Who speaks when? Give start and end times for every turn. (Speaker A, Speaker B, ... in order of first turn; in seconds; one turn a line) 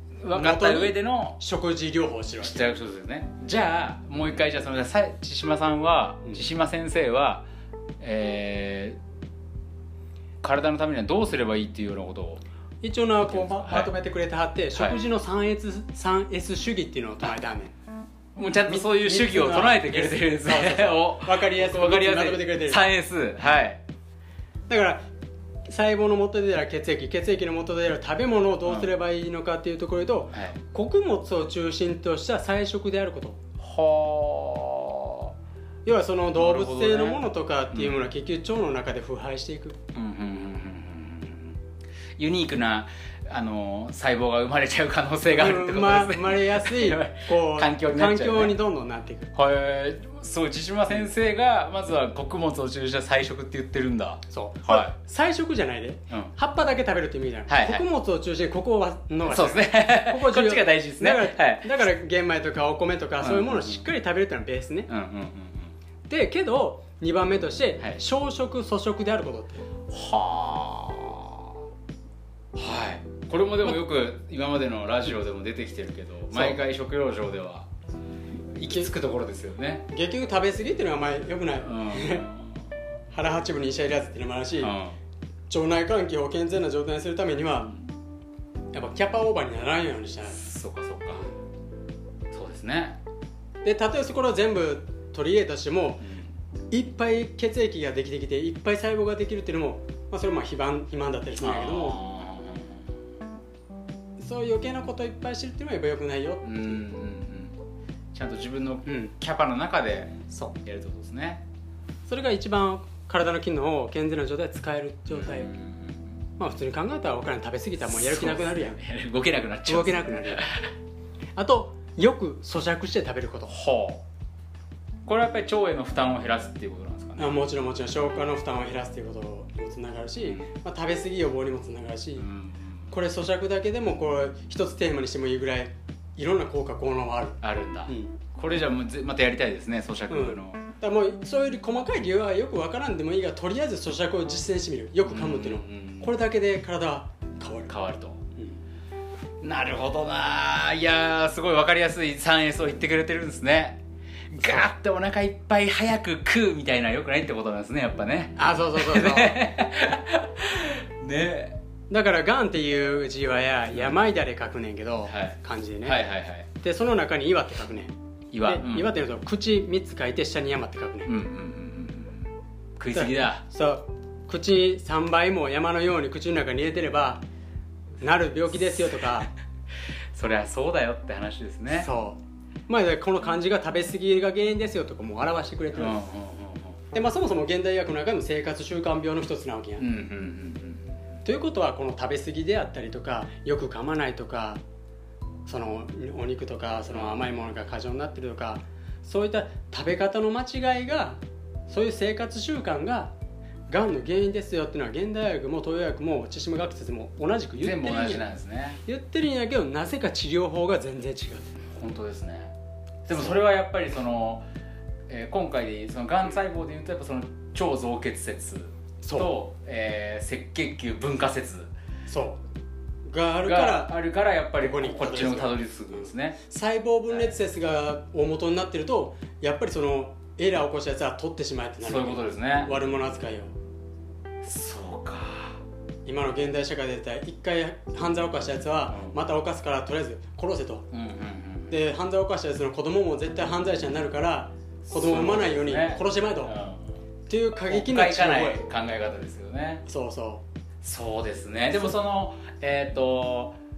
Speaker A: 0.2-1.4
Speaker B: 0.3-2.7
Speaker A: 2.4-7.5
Speaker A: 8.0-9.0
Speaker A: 10.4-12.4
Speaker B: 12.8-17.7
Speaker A: 13.3-13.9
Speaker A: 18.4-23.8
Speaker B: 18.5-22.9
Speaker B: 24.7-25.1
Speaker B: 25.7-33.4
Speaker A: 33.6-35.3
Speaker B: 35.9-39.8
Speaker A: 36.4-38.0
Speaker A: 39.9-41.6
Speaker A: 42.2-48.6
Speaker B: 45.3-49.3
Speaker A: 49.3-54.9
Speaker B: 54.3-64.9
Speaker A: 57.5-57.9
Speaker A: 59.3-61.8
Speaker A: 63.2-63.8
Speaker A: 64.9-65.7
Speaker B: 66.1-69.7
Speaker A: 69.9-71.5
Speaker A: 72.5-77.7
Speaker B: 76.3-76.6
Speaker A: 78.6-79.9
Speaker B: 79.9-82.3
Speaker A: 81.6-82.6
Speaker B: 83.1-84.8
Speaker A: 84.6-85.0
Speaker B: 85.5-87.7
Speaker B: 88.7-90.4
Speaker A: 90.3-91.3
Speaker A: 92.3-93.0
Speaker B: 93.6-96.1
Speaker A: 96.0-96.3
Speaker B: 96.7-102.0
Speaker A: 101.4-102.8
Speaker B: 104.2-106.8
Speaker A: 106.4-107.5
Speaker A: 108.1-111.4
Speaker B: 108.9-109.1
Speaker B: 112.1-115.6
Speaker A: 115.1-116.0
Speaker B: 116.4-118.8
Speaker A: 117.8-120.7
Speaker B: 119.7-120.5
Speaker B: 121.4-123.5
Speaker A: 123.5-124.0
Speaker A: 125.1-127.4
Speaker B: 127.2-132.3
Speaker A: 130.2-130.5
Speaker A: 132.2-132.9
Speaker B: 132.9-138.2
Speaker A: 137.4-140.6
Speaker B: 140.1-147.8
Speaker A: 145.1-146.2
Speaker A: 147.7-148.2
Speaker A: 149.4-153.8
Speaker A: 154.3-161.6
Speaker B: 154.3-154.7
Speaker B: 158.4-159.4
Speaker B: 161.9-171.2
Speaker A: 165.1-166.5
Speaker A: 168.3-168.9
Speaker A: 171.1-172.2
Speaker A: 172.8-173.4
Speaker B: 172.9-177.2
Speaker B: 178.0-179.3
Speaker A: 180.2-181.9
Speaker B: 181.7-186.0
Speaker A: 185.7-186.8
Speaker B: 186.9-189.9
Speaker A: 189.8-190.9
Speaker B: 191.2-194.6
Speaker B: 195.5-203.1
Speaker A: 196.9-197.3
Speaker B: 203.7-208.2
Speaker A: 207.6-208.8
Speaker B: 208.8-211.6
Speaker A: 211.7-212.5
Speaker A: 213.1-214.5
Speaker A: 215.1-221.7
Speaker B: 219.0-219.3
Speaker B: 222.1-222.4
Speaker B: 223.1-223.9
Speaker A: 223.4-226.4
Speaker B: 224.6-225.6
Speaker B: 226.5-233.5
Speaker A: 231.8-232.8
Speaker A: 234.4-235.6
Speaker B: 236.1-240.9
Speaker A: 238.9-239.2
Speaker A: 240.9-241.8
Speaker B: 241.7-246.5
Speaker A: 244.9-246.9
Speaker B: 247.3-248.7
Speaker A: 247.7-249.8
Speaker B: 249.9-250.4
Speaker A: 250.8-253.6